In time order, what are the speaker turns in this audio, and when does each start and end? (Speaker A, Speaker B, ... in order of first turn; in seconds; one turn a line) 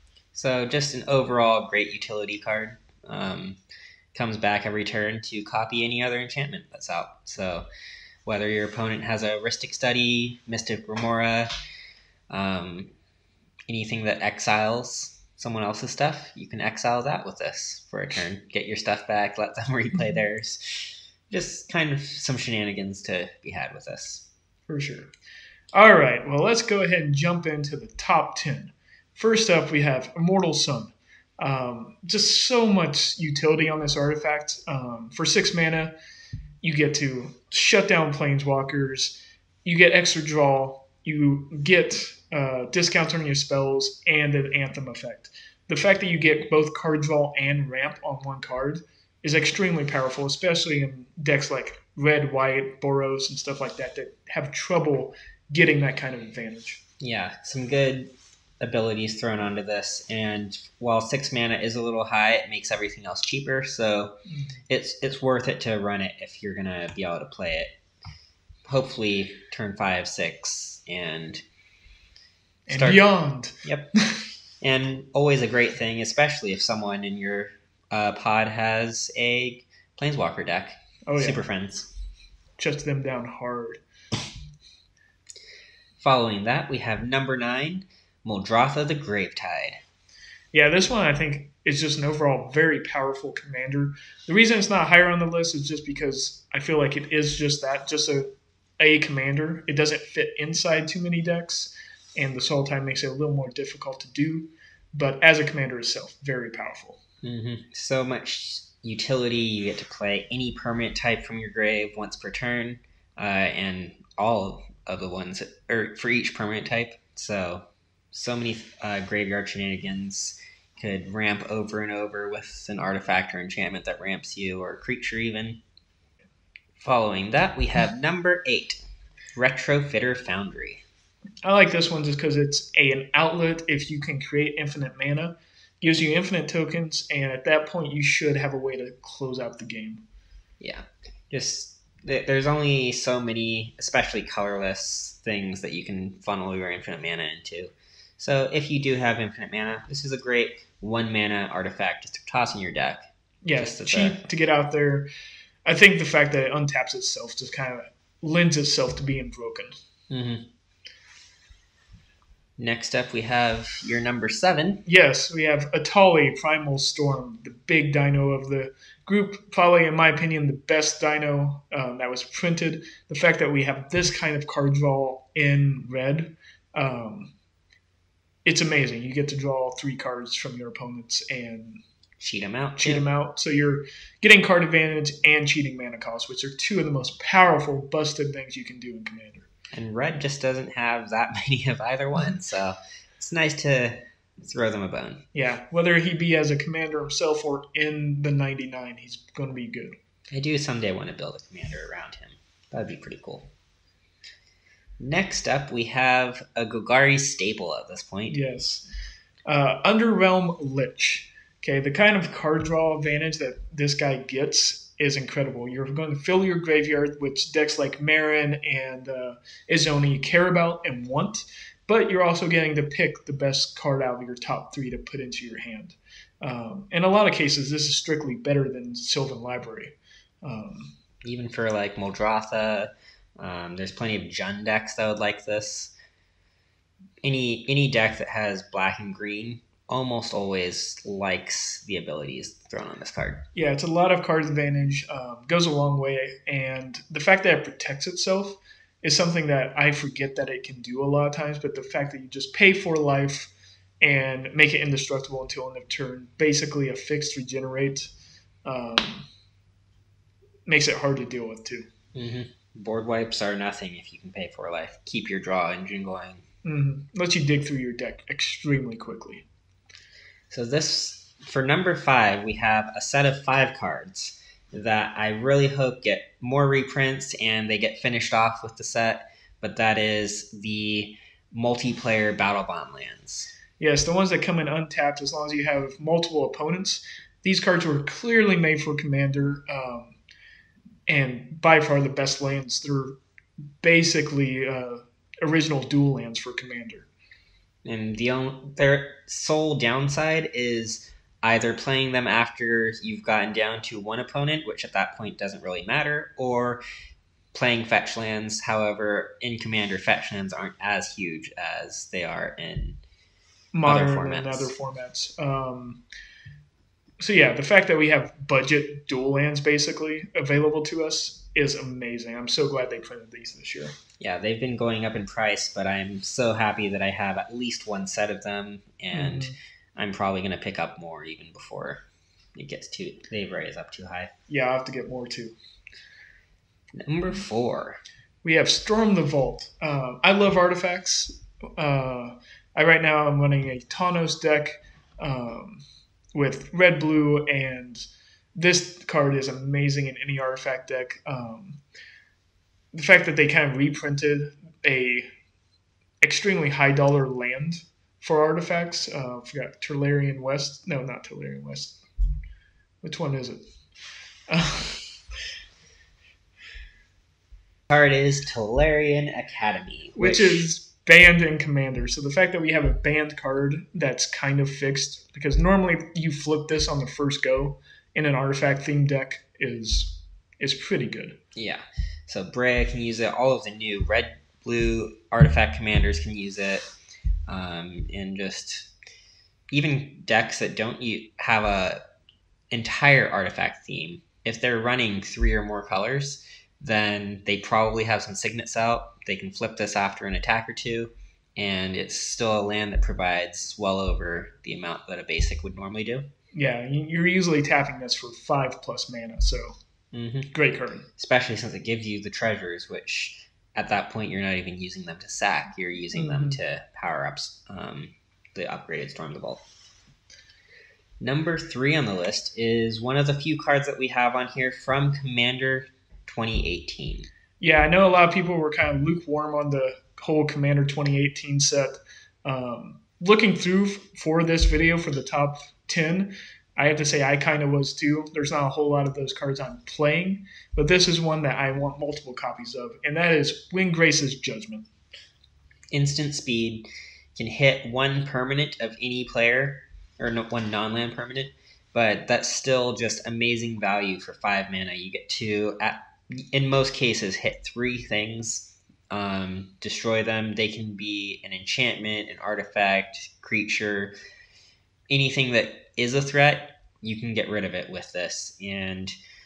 Speaker A: 0.3-3.6
Speaker A: 4.1-7.7
Speaker A: 8.2-11.5
Speaker A: 12.3-12.9
Speaker A: 13.7-24.2
Speaker B: 24.7-25.1
Speaker B: 25.7-35.9
Speaker B: 36.6-56.8
Speaker A: 57.0-64.1
Speaker A: 64.7-67.7
Speaker A: 68.7-71.4
Speaker B: 72.7-74.2
Speaker A: 72.7-73.0
Speaker A: 74.6-81.9
Speaker B: 81.1-81.4
Speaker B: 82.6-83.8
Speaker A: 86.0-89.8
Speaker B: 90.5-107.0
Speaker A: 107.2-125.6
Speaker A: 126.8-128.8
Speaker A: 129.3-130.8
Speaker B: 131.4-140.0
Speaker A: 140.6-153.0
Speaker B: 153.4-155.1
Speaker A: 153.5-154.2
Speaker B: 155.7-159.8
Speaker A: 160.1-160.5
Speaker A: 162.6-164.8
Speaker B: 164.8-177.3
Speaker B: 178.4-181.8
Speaker A: 182.2-183.0
Speaker B: 182.8-189.5
Speaker A: 189.7-195.2
Speaker B: 195.3-199.9
Speaker A: 200.3-203.5
Speaker A: 205.0-208.4
Speaker B: 208.3-208.9
Speaker B: 209.5-230.9
Speaker A: 231.2-235.9
Speaker A: 237.2-243.4
Speaker B: 243.5-258.1
Speaker B: 258.6-259.3
Speaker B: 260.7-261.9
Speaker A: 262.1-266.4
Speaker B: 266.6-269.4
Speaker A: 270.5-283.5
Speaker B: 283.8-290.1
Speaker B: 291.1-293.2
Speaker B: 293.8-297.1
Speaker A: 297.8-306.8
Speaker A: 307.5-313.0
Speaker B: 313.7-316.0
Speaker A: 313.8-314.7
Speaker B: 317.2-323.9
Speaker A: 324.2-332.0
Speaker B: 329.1-329.5
Speaker A: 332.6-334.3
Speaker B: 334.5-335.5
Speaker A: 336.9-338.0
Speaker B: 338.4-348.0
Speaker B: 348.5-351.8
Speaker B: 352.9-355.3
Speaker B: 356.2-362.0
Speaker B: 363.0-363.6
Speaker B: 364.5-365.1
Speaker A: 367.9-370.6
Speaker B: 370.1-381.4
Speaker A: 381.6-386.8
Speaker A: 387.5-388.9
Speaker A: 389.7-392.0
Speaker A: 392.7-406.2
Speaker B: 406.5-409.7
Speaker A: 410.1-410.5
Speaker B: 410.5-411.1
Speaker A: 411.2-419.6
Speaker B: 416.1-416.6
Speaker A: 421.2-427.3
Speaker B: 427.6-444.9
Speaker A: 445.9-464.1
Speaker A: 465.1-469.1